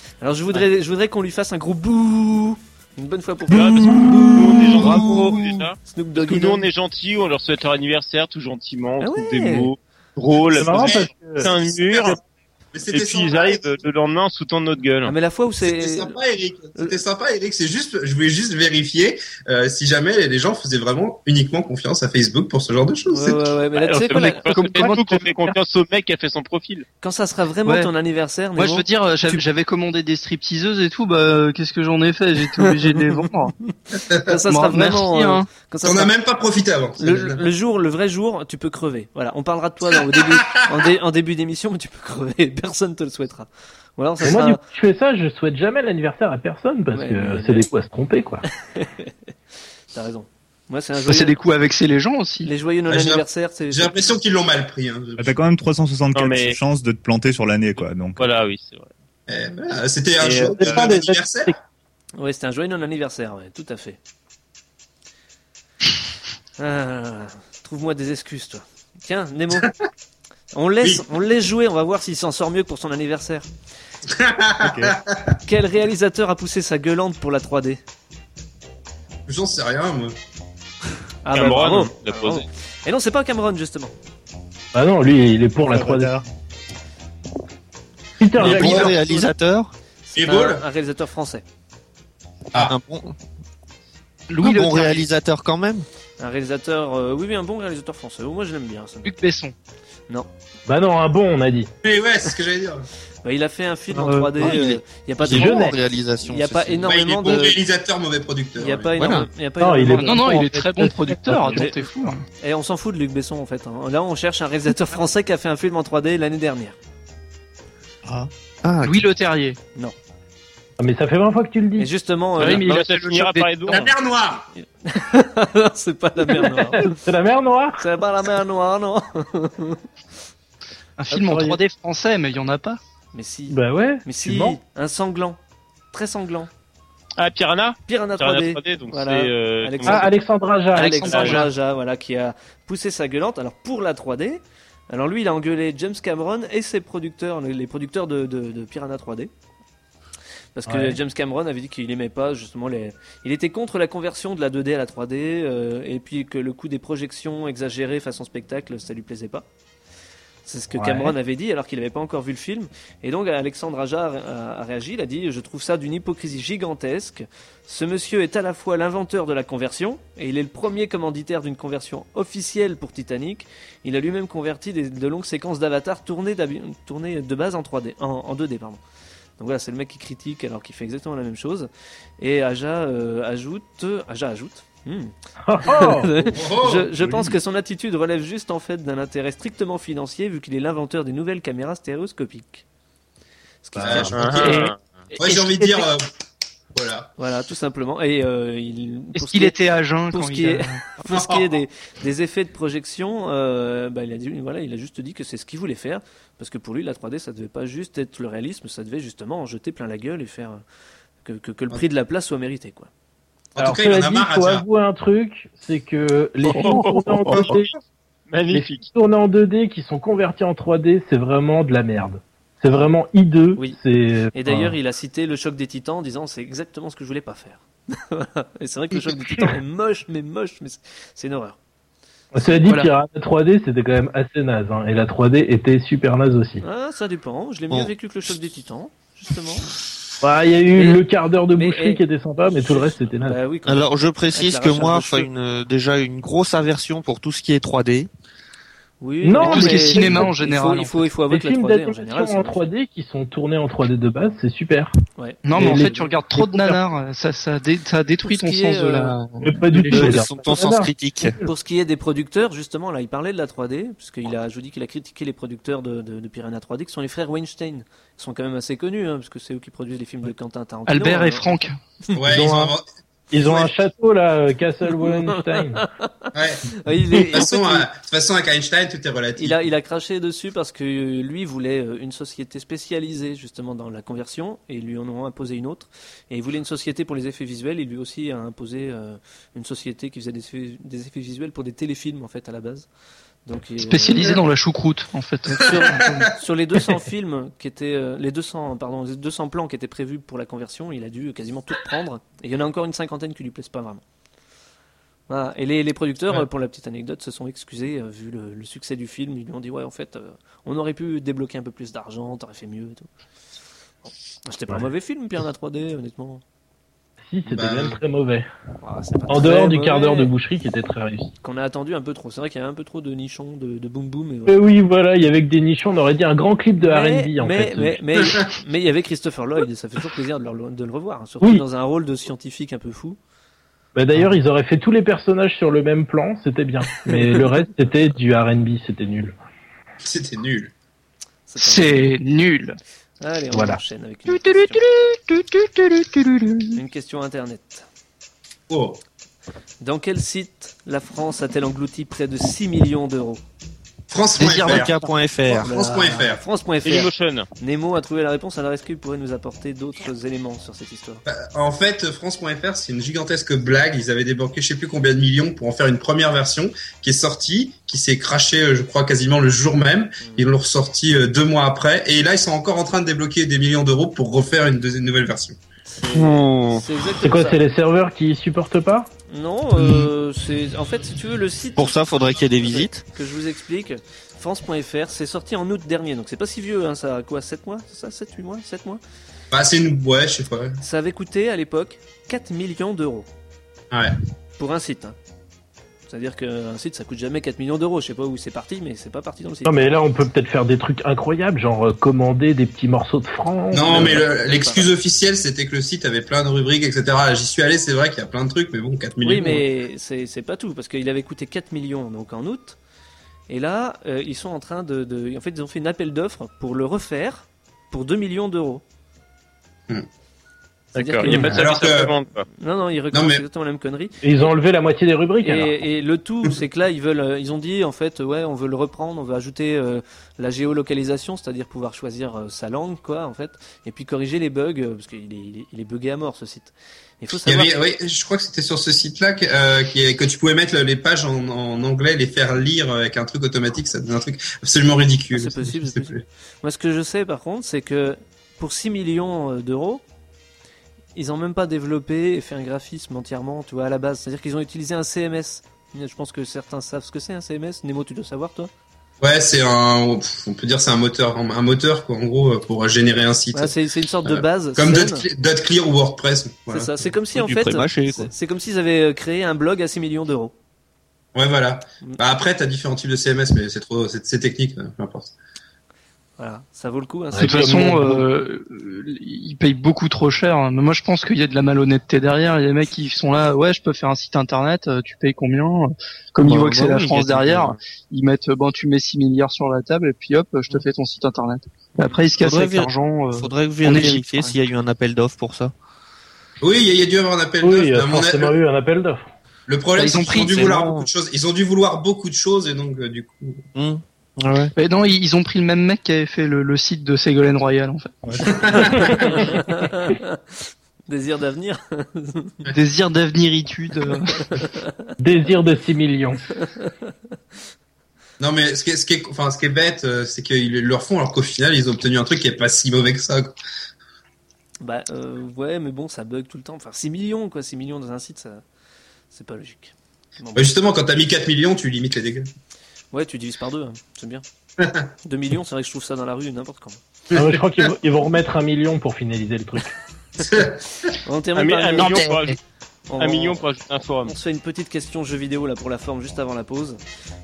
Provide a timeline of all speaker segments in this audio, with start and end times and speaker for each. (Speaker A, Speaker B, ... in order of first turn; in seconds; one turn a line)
Speaker A: 0.2-3.9
Speaker B: 3.5-12.2
Speaker C: 4.8-5.1
Speaker A: 5.8-6.7
Speaker A: 9.0-9.7
Speaker D: 10.5-11.4
Speaker E: 10.8-12.2
Speaker E: 12.7-13.8
Speaker B: 12.9-15.1
Speaker A: 15.1-16.1
Speaker E: 15.6-23.5
Speaker A: 23.1-24.5
Speaker B: 23.8-26.9
Speaker C: 24.1-25.6
Speaker A: 27.0-29.4
Speaker C: 28.6-33.5
Speaker A: 32.6-33.0
Speaker E: 34.0-34.3
Speaker A: 34.3-36.1
Speaker C: 34.5-35.5
Speaker E: 35.8-37.5
Speaker A: 37.0-44.6
Speaker E: 39.9-40.6
Speaker D: 44.2-48.4
Speaker A: 46.9-47.7
Speaker A: 48.7-49.1
Speaker A: 49.9-51.4
Speaker C: 51.1-52.5
Speaker A: 52.4-54.2
Speaker E: 52.9-55.4
Speaker F: 55.2-58.3
Speaker B: 56.1-56.6
Speaker B: 57.8-58.9
Speaker E: 59.3-61.5
Speaker B: 60.2-61.0
Speaker D: 60.8-61.5
Speaker A: 62.2-64.0
Speaker A: 66.6-69.7
Speaker A: 70.5-73.5
Speaker E: 74.1-75.4
Speaker F: 74.6-75.0
Speaker A: 75.5-77.8
Speaker E: 79.3-80.2
Speaker A: 81.2-83.9
Speaker B: 81.3-82.5
Speaker D: 84.7-86.2
Speaker F: 85.7-86.2
Speaker D: 88.2-88.9
Speaker G: 88.4-89.7
Speaker A: 88.4-89.3
Speaker E: 88.4-88.9
Speaker A: 90.1-91.4
Speaker E: 90.2-90.6
Speaker G: 92.5-93.2
Speaker C: 94.3-95.1
Speaker G: 94.4-95.9
Speaker A: 96.2-99.1
Speaker C: 99.0-99.5
Speaker D: 100.7-101.7
Speaker E: 101.8-102.9
Speaker A: 103.2-107.6
Speaker D: 103.9-104.5
Speaker G: 104.4-106.9
Speaker D: 105.3-105.8
Speaker E: 106.8-108.9
Speaker A: 108.6-110.5
Speaker C: 109.0-109.3
Speaker D: 109.6-111.7
Speaker C: 109.9-112.2
Speaker A: 111.5-111.8
Speaker A: 112.4-116.8
Speaker F: 118.0-118.3
Speaker G: 118.6-119.1
Speaker C: 118.8-119.6
Speaker D: 120.8-121.9
Speaker A: 121.8-122.7
Speaker B: 122.4-123.9
Speaker C: 122.4-123.8
Speaker E: 123.7-124.5
Speaker A: 124.6-126.9
Speaker D: 126.4-127.8
Speaker A: 127.8-129.8
Speaker C: 131.0-132.8
Speaker D: 131.1-131.6
Speaker A: 133.1-135.4
Speaker D: 133.5-134.6
Speaker A: 135.9-136.5
Speaker B: 137.2-140.1
Speaker A: 137.9-140.1
Speaker D: 139.9-141.4
Speaker A: 140.7-149.3
Speaker C: 140.8-141.5
Speaker B: 141.1-141.4
Speaker A: 150.6-159.5
Speaker D: 150.7-151.0
Speaker A: 160.4-178.8
Speaker D: 160.7-161.1
Speaker A: 179.4-192.7
Speaker D: 185.4-186.1
Speaker E: 186.3-186.9
Speaker F: 187.0-187.4
Speaker A: 193.6-194.7
Speaker D: 193.8-194.1
Speaker E: 193.8-196.0
Speaker B: 194.2-194.8
Speaker C: 195.2-195.8
Speaker E: 196.7-197.1
Speaker A: 197.2-199.6
Speaker C: 199.2-200.8
Speaker A: 200.1-210.6
Speaker E: 201.1-201.4
Speaker A: 211.2-212.9
Speaker E: 213.6-214.7
Speaker D: 213.6-217.7
Speaker B: 216.5-217.6
Speaker B: 218.3-218.9
Speaker D: 218.5-224.8
Speaker A: 224.3-231.6
Speaker D: 232.3-236.6
Speaker C: 232.6-232.9
Speaker A: 236.6-239.7
Speaker D: 240.2-243.4
Speaker A: 240.7-241.0
Speaker A: 241.6-245.3
Speaker G: 243.7-248.1
Speaker A: 249.0-252.6
Speaker D: 249.2-250.3
Speaker C: 249.4-251.1
Speaker D: 251.3-255.0
Speaker A: 255.2-256.1
Speaker C: 255.4-260.5
Speaker D: 255.6-256.8
Speaker A: 258.2-259.1
Speaker D: 259.4-261.5
Speaker G: 259.9-261.4
Speaker A: 261.4-271.6
Speaker C: 270.9-271.8
Speaker E: 272.2-273.7
Speaker D: 272.3-272.7
Speaker D: 273.3-275.8
Speaker A: 274.9-277.9
Speaker E: 276.3-276.7
Speaker E: 277.3-279.6
Speaker A: 279.4-292.9
Speaker A: 293.5-294.4
Speaker C: 293.9-296.3
Speaker E: 295.6-296.3
Speaker A: 295.7-304.0
Speaker A: 305.3-313.1
Speaker A: 314.4-316.4
Speaker D: 317.3-318.5
Speaker E: 317.5-318.0
Speaker A: 318.8-320.3
Speaker D: 319.3-321.3
Speaker A: 321.4-324.6
Speaker D: 324.5-328.0
Speaker A: 326.8-333.2
Speaker E: 328.2-328.5
Speaker D: 333.9-339.3
Speaker A: 337.1-337.5
Speaker E: 340.0-340.7
Speaker A: 341.5-342.1
Speaker C: 341.6-342.8
Speaker A: 343.2-344.8
Speaker D: 343.5-343.8
Speaker C: 344.3-346.8
Speaker A: 346.7-347.9
Speaker E: 348.7-349.0
Speaker A: 349.8-353.4
Speaker E: 354.1-354.9
Speaker G: 354.4-355.8
Speaker C: 354.4-355.1
Speaker E: 355.5-356.4
Speaker A: 355.5-361.2
Speaker B: 356.9-357.5
Speaker E: 361.3-375.6
Speaker A: 370.2-370.5
Speaker A: 375.9-377.6
Speaker G: 376.1-376.8
Speaker D: 377.2-379.1
Speaker A: 379.3-389.0
Speaker G: 381.8-383.0
Speaker E: 389.5-390.8
Speaker A: 390.8-393.3
Speaker A: 394.6-395.2
Speaker A: 396.1-399.8
Speaker D: 399.6-404.2
Speaker E: 403.7-409.6
Speaker A: 403.9-404.9
Speaker A: 409.2-412.8
Speaker A: 413.5-418.8
Speaker A: 420.9-422.0
Speaker B: 420.9-422.5
Speaker D: 421.2-421.7
Speaker E: 421.5-422.1
Speaker A: 422.5-424.2
Speaker E: 423.1-423.4
Speaker D: 424.2-425.8
Speaker A: 425.4-437.7
Speaker E: 437.4-446.2
Speaker A: 445.3-450.0
Speaker A: 451.1-458.7
Speaker E: 459.2-466.9
Speaker A: 463.5-465.3
Speaker A: 466.7-470.5
Speaker G: 467.3-468.3
Speaker E: 471.4-475.3
Speaker A: 476.4-477.9
Speaker D: 477.3-478.2
Speaker C: 477.4-494.6
Speaker G: 486.4-487.8
Speaker G: 492.0-495.7
Speaker E: 496.6-498.6
Speaker D: 497.6-499.3
Speaker E: 499.7-503.6
Speaker C: 500.0-500.8
Speaker G: 500.4-501.1
Speaker G: 503.7-504.7
Speaker C: 504.8-508.8
Speaker E: 508.4-509.4
Speaker A: 508.9-510.4
Speaker A: 511.1-512.6
Speaker C: 512.7-514.5
Speaker A: 514.3-515.0
Speaker D: 515.2-516.4
Speaker A: 516.6-516.9
Speaker E: 518.4-523.5
Speaker A: 524.8-528.6
Speaker A: 529.3-530.7
Speaker E: 530.5-532.5
Speaker A: 533.1-534.4
Speaker E: 534.8-535.1
Speaker A: 535.2-537.0
Speaker E: 537.3-537.9
Speaker D: 537.3-540.0
Speaker E: 540.4-541.1
Speaker A: 541.2-542.3
Speaker B: 541.6-542.6
Speaker C: 542.0-542.3
Speaker A: 543.1-543.6
Speaker B: 543.2-544.4
Speaker A: 544.2-547.0